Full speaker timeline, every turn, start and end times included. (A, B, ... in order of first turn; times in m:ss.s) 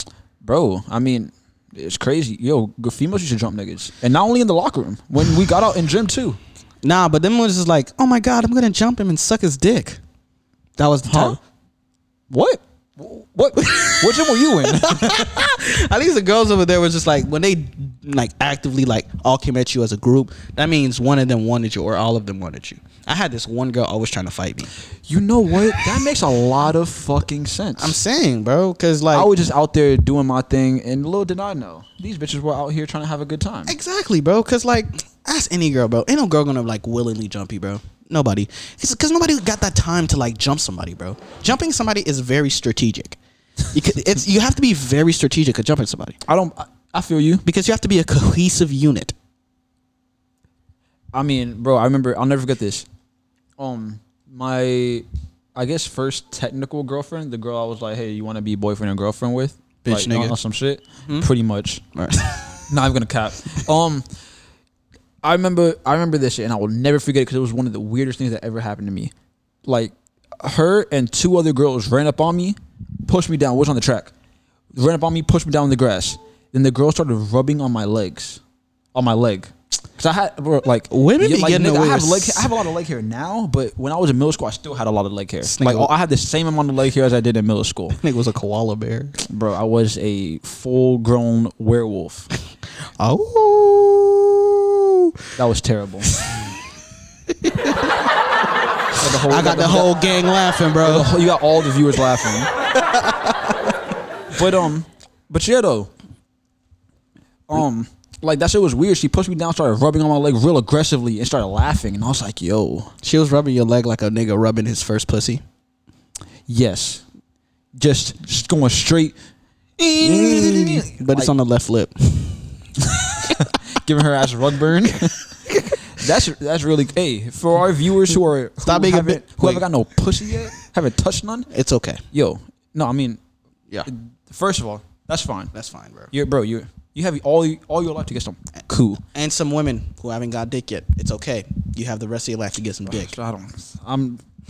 0:00.4-0:06.4 A
0:06.8-0:10.0 B
0:10.8-0:11.4 B
0:11.1-0:11.4 A
0:12.3-0:15.4 A
0:13.6-0:24.7 B
0:25.0-0:28.0 A
0:27.8-0:29.3 B
0:29.1-0:33.7 A
0:33.7-0:43.2 B
0:43.7-0:46.2 B
0:46.2-0:47.4 A
0:47.4-0:49.1 B
0:51.1-0:52.9 A
0:53.6-1:01.8 A
0:59.8-1:00.3 B
1:01.9-1:02.6 B
1:02.7-1:04.0 A
1:05.2-1:09.1 A
1:09.6-1:14.1 A
1:14.7-1:18.4 A
1:18.9-1:28.0 A
1:20.9-1:22.5 B
1:25.4-1:25.9 B
1:27.9-1:29.1 B
1:29.3-1:32.3 A
1:33.0-1:35.1 B
1:35.4-1:36.1 A
1:37.3-1:37.9 B
1:39.0-1:40.0 A
1:39.2-1:41.1 B
1:40.8-1:42.5 A
1:42.8-1:43.5 B
1:44.3-1:45.9 A
1:47.5-1:52.9 A
1:53.0-1:55.4 B
1:56.5-1:57.0 A
1:57.7-1:59.1 A
1:59.8-2:01.3 A
2:00.0-2:02.5 B
2:03.0-2:05.2 A
2:05.9-2:11.5 A
2:08.6-2:09.7 B
2:11.5-2:12.0 B
2:12.1-2:13.2 A
2:13.8-2:15.5 A
2:15.5-2:16.1 B
2:16.1-2:19.0 A
2:19.1-2:23.1 B
2:22.8-2:24.2 A